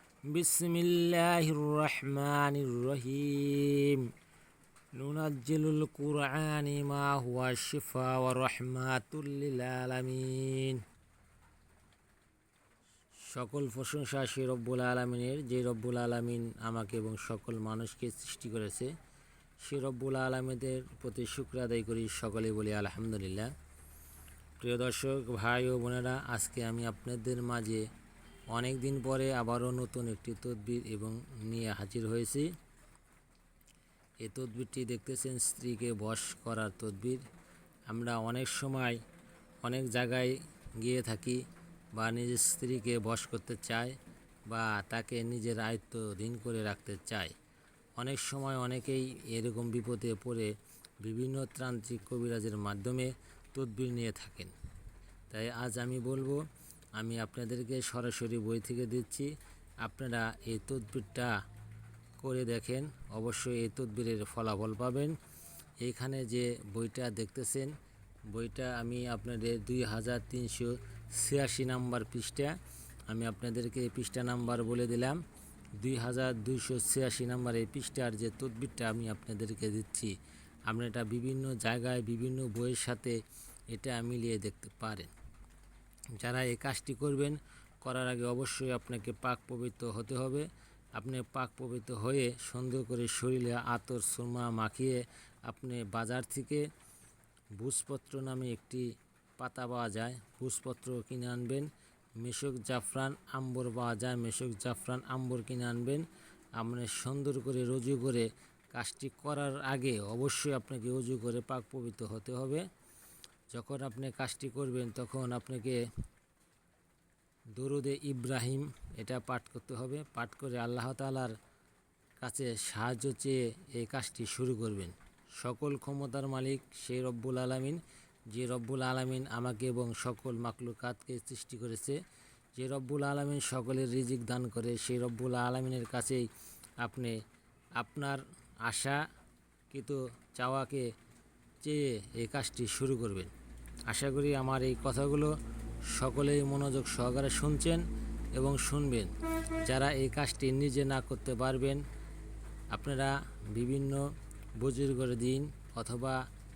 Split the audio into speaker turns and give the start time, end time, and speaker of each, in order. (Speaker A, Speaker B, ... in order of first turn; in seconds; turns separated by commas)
Speaker A: 0.2-4.1, Speaker A: 4.9-10.8, Speaker A: 13.3-18.9, Speaker A: 19.6-23.5, Speaker A: 24.6-27.8, Speaker A: 28.5-32.5, Speaker A: 34.2-37.2, Speaker A: 37.9-39.0, Speaker A: 39.6-41.4, Speaker A: 41.9-43.9, Speaker A: 44.5-47.3, Speaker A: 48.0-54.5, Speaker A: 55.3-56.4, Speaker A: 57.0-59.3, Speaker A: 59.8-61.3, Speaker A: 62.2-65.2, Speaker A: 65.8-67.7, Speaker A: 68.3-72.5, Speaker A: 73.1-75.2, Speaker A: 75.8-80.1, Speaker A: 80.7-83.2, Speaker A: 83.7-85.1, Speaker A: 86.2-90.5, Speaker A: 91.0-96.6, Speaker A: 97.6-98.8, Speaker A: 99.4-106.0, Speaker A: 106.6-112.6, Speaker A: 113.5-115.8, Speaker A: 117.5-121.3, Speaker A: 122.2-132.0, Speaker A: 132.6-136.3, Speaker A: 136.8-137.2, Speaker A: 137.8-139.0, Speaker A: 139.7-140.9, Speaker A: 141.6-143.3, Speaker A: 143.9-145.3, Speaker A: 145.9-147.8, Speaker A: 148.3-149.1, Speaker A: 149.7-151.8, Speaker A: 152.7-154.0, Speaker A: 154.6-156.2